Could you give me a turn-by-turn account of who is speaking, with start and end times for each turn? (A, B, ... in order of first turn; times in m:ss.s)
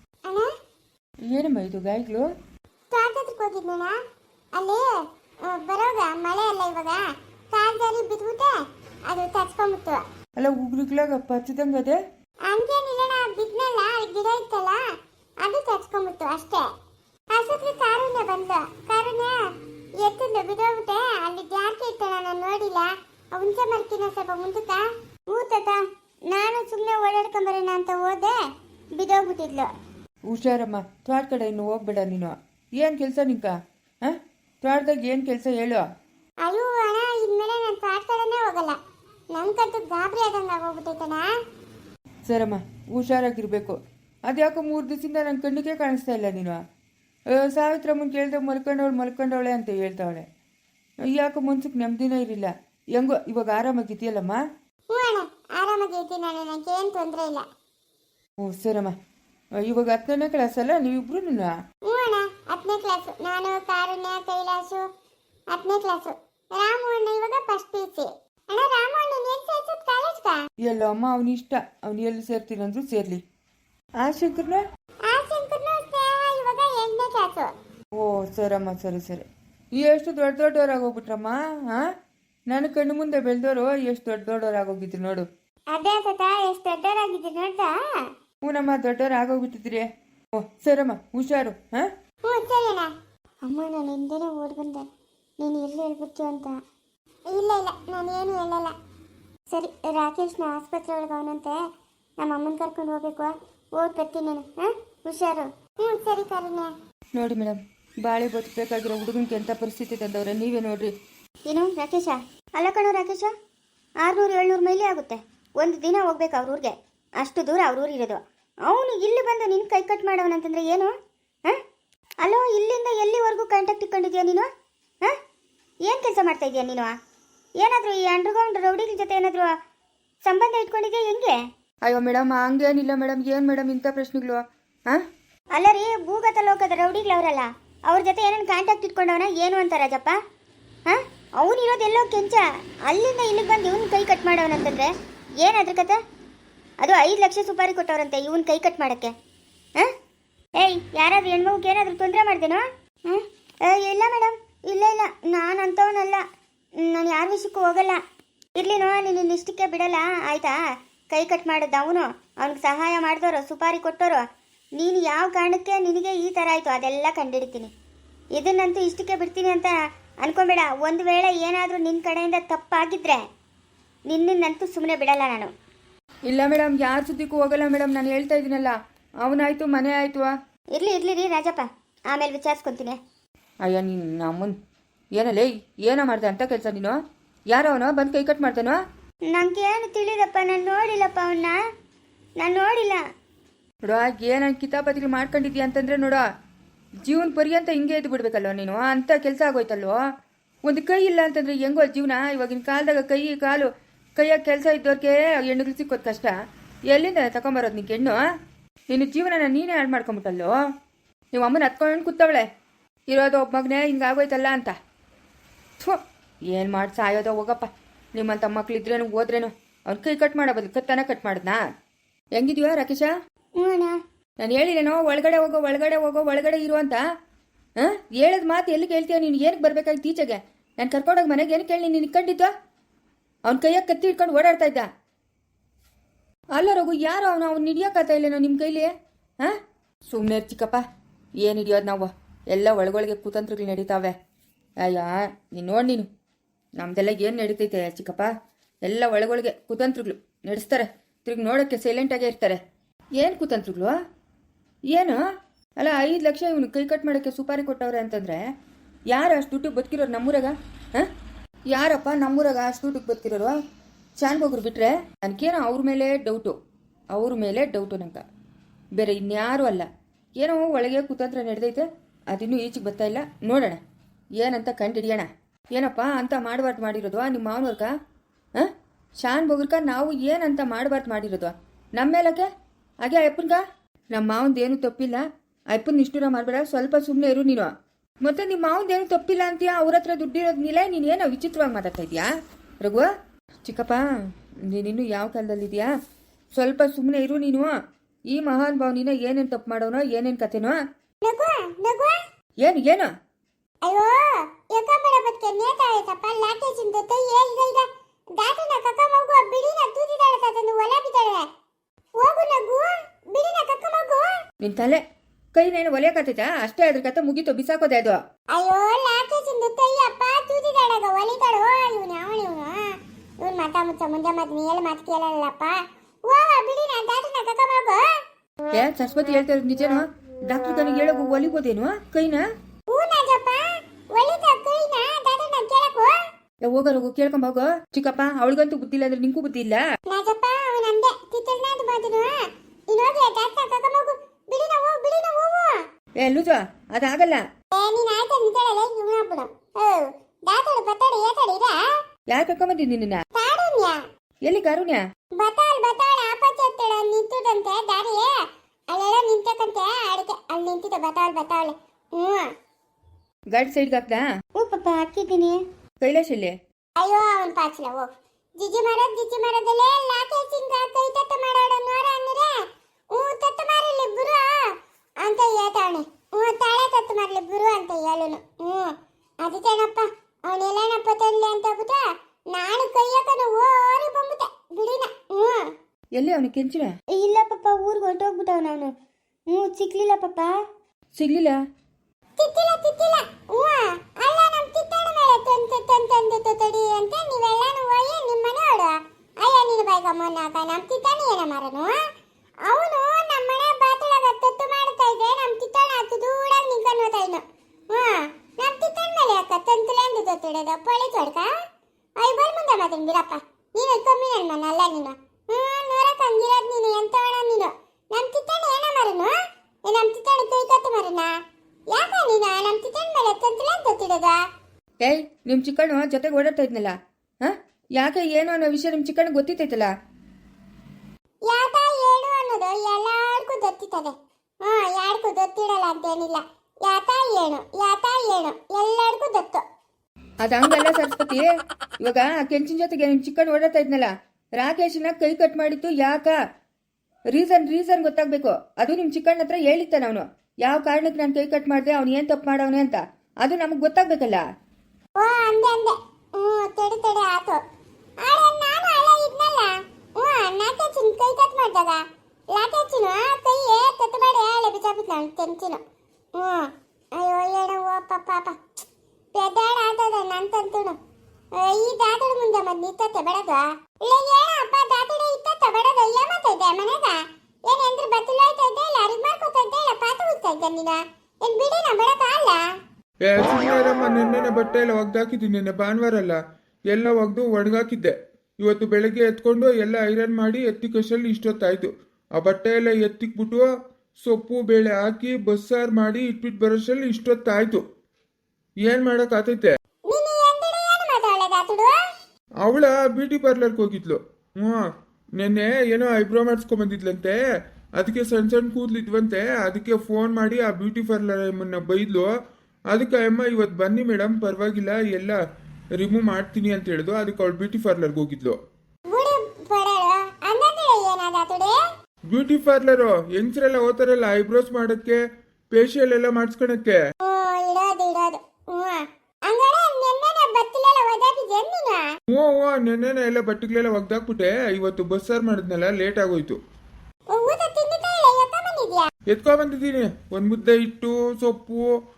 0:01.3-0:02.3 A
0:02.9-0:04.0 B
0:04.6-0:04.9 B
0:05.4-0:08.6 B
0:09.1-0:10.0 B
0:10.4-0:12.0 A
0:12.5-0:14.8 B
0:15.4-0:16.7 B
0:17.3-0:19.4 B
0:20.0-0:25.8 B
0:26.3-0:27.6 C
0:27.5-0:28.4 B
0:29.0-0:29.7 C
0:30.3-0:35.8 A
0:36.4-0:38.8 B
0:39.3-0:41.3 B
0:42.3-0:46.6 A
0:47.4-0:50.3 A
0:51.1-0:54.4 A
0:54.9-0:57.4 B
0:58.4-0:58.9 A
0:59.6-1:01.5 A
1:01.9-1:04.8 B
1:05.5-1:10.4 B
1:10.7-1:13.2 A
1:14.0-1:14.6 A
1:15.1-1:17.5 B
1:18.0-1:21.9 A
1:22.5-1:25.3 A
1:25.7-1:27.8 B
1:28.4-1:29.9 A
1:30.4-1:31.9 A
1:32.2-1:32.9 B
1:33.5-1:34.8 B
1:33.7-1:34.2 C
1:35.4-1:36.6 B
1:37.3-1:38.8 B
1:39.5-1:41.6 B
1:42.2-1:46.7 B
1:47.2-1:50.9 A
1:51.5-1:53.3 C
1:54.0-2:00.9 C
2:02.2-2:04.5 C
2:05.8-2:06.9 C
2:07.6-2:09.5 C
2:10.2-2:11.4 C
2:11.9-2:15.0 A
2:15.6-2:20.2 C
2:20.9-2:26.0 C
2:26.8-2:29.1 C
2:30.6-2:36.2 C
2:36.8-2:38.0 C
2:38.6-2:40.6 C
2:41.1-2:44.2 C
2:44.8-2:47.7 C
2:48.4-2:53.2 C
2:54.1-2:55.5 C
2:56.3-3:00.3 A
3:00.8-3:03.0 C
3:03.6-3:04.6 A
3:05.2-3:08.8 A
3:09.3-3:11.6 C
3:12.4-3:13.0 C
3:13.8-3:16.2 A
3:17.0-3:20.0 A
3:20.6-3:26.3 A
3:26.9-3:28.2 A
3:28.9-3:30.5 A
3:31.3-3:32.5 A
3:33.1-3:34.8 A
3:36.5-3:41.6 A
3:42.4-3:43.1 A
3:43.6-3:44.0 C
3:44.4-3:47.0 A
3:47.8-3:52.5 A
3:53.5-3:54.9 A
3:56.6-3:59.6 A
4:00.1-4:00.8 A
4:01.4-4:04.2 A
4:04.8-4:06.1 A
4:06.8-4:08.3 A
4:08.8-4:12.6 A
4:13.2-4:14.0 A
4:14.9-4:15.2 A
4:15.8-4:18.4 A
4:19.1-4:21.1 A
4:21.7-4:23.6 A
4:24.2-4:26.6 A
4:27.1-4:28.2 A
4:29.0-4:33.8 A
4:34.4-4:37.9 A
4:39.2-4:42.5 A
4:43.0-4:47.7 A
4:48.2-4:52.3 A
4:52.8-4:53.1 A
4:53.6-4:54.0 A
4:54.7-4:55.9 A
4:56.6-4:57.7 A
4:58.3-5:00.8 A
5:01.2-5:02.2 B
5:02.6-5:03.1 A
5:03.8-5:11.5 B
5:12.2-5:14.3 B
5:14.6-5:15.0 A
5:15.6-5:18.2 A
5:18.5-5:28.0 B
5:28.7-5:32.4 A
5:32.9-5:36.2 B
5:36.6-5:39.8 A
5:40.1-5:42.4 B
5:42.9-5:45.8 B
5:46.2-5:47.4 A
5:47.7-5:51.8 B
5:52.3-5:53.2 A
5:53.4-5:54.0 B
5:54.4-5:55.0 A
5:55.4-5:58.3 B
5:58.9-6:02.5 B
6:03.5-6:04.2 A
6:04.6-6:05.6 C
6:06.0-6:06.6 A
6:07.0-6:12.5 B
6:13.1-6:14.7 B
6:15.2-6:25.7 B
6:26.2-6:26.9 A
6:27.1-6:28.9 C
6:29.5-6:30.5 C
6:31.2-6:31.6 A
6:32.4-6:42.0 B
6:42.7-6:51.5 B
6:52.2-6:59.3 B
6:59.9-7:01.3 B
7:01.9-7:04.4 B
7:05.0-7:09.9 A
7:11.5-7:19.6 B
7:20.4-7:21.5 A
7:22.0-7:26.4 A
7:27.3-7:34.4 A
7:35.2-7:37.6 B
7:38.2-7:42.0 B
7:42.5-7:45.8 B
7:46.4-7:48.6 B
7:49.4-7:51.0 B
7:51.6-8:02.6 B
8:03.2-8:06.4 D
8:06.9-8:13.7 D
8:14.2-8:17.8 D
8:18.8-8:19.8 D
8:20.1-8:22.0 B
8:22.6-8:24.9 D
8:25.4-8:27.4 D
8:28.0-8:32.3 D
8:32.9-8:35.4 D
8:36.0-8:38.6 D
8:39.1-8:41.8 B
8:42.3-8:47.0 D
8:47.2-8:52.1 B
8:52.3-8:56.6 D
8:57.3-8:59.1 B
8:59.3-9:01.9 D